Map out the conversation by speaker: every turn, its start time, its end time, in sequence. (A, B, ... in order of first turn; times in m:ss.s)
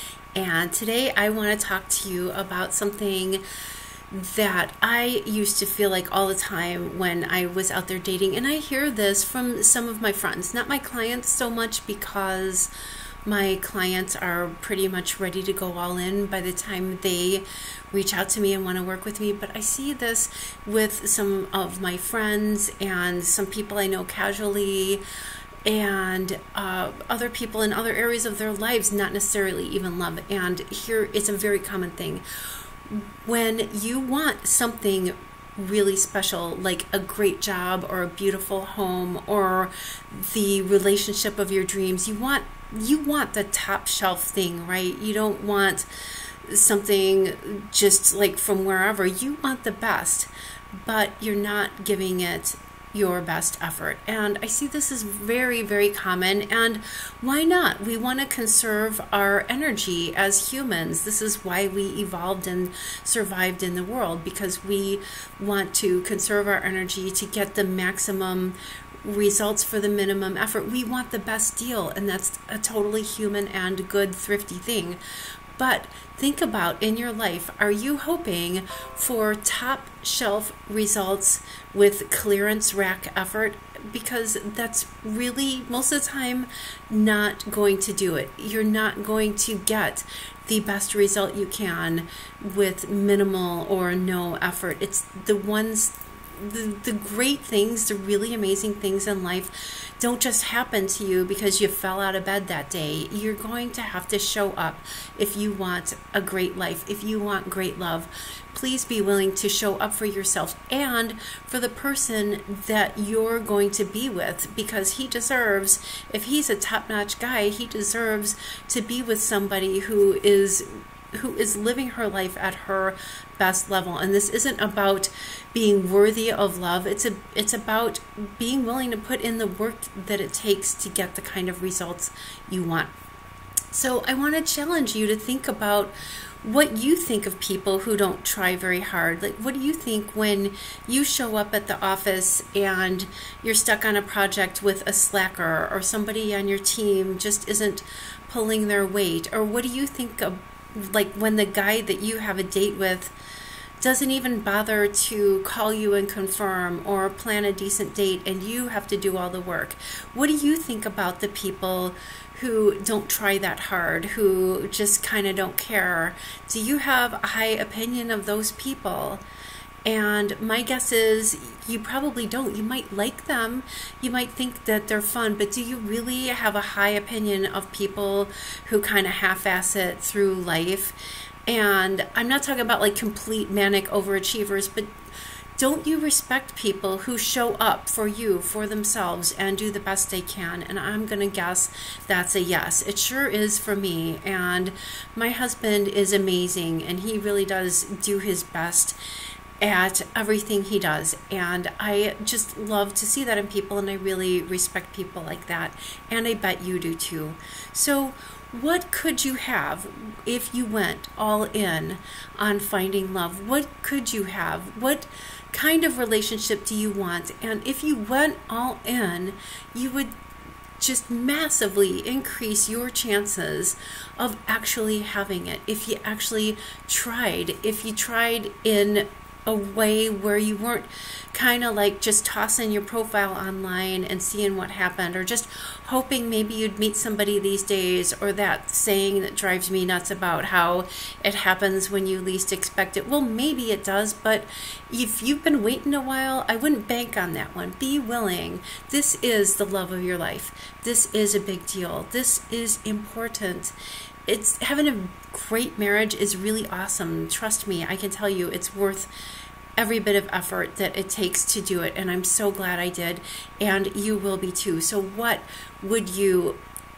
0:00.3-0:03.4 A
0:04.1-0:12.7 A
0:13.2-0:25.0 A
0:25.6-0:32.2 A
0:32.8-1:15.0 A
1:15.6-2:12.9 A
2:13.7-2:33.1 A
2:33.8-2:49.2 A
2:49.8-3:04.9 A
3:05.6-3:19.0 A
3:19.6-3:40.1 A
3:40.8-4:13.7 A
4:14.3-4:19.1 A
4:19.8-4:26.6 A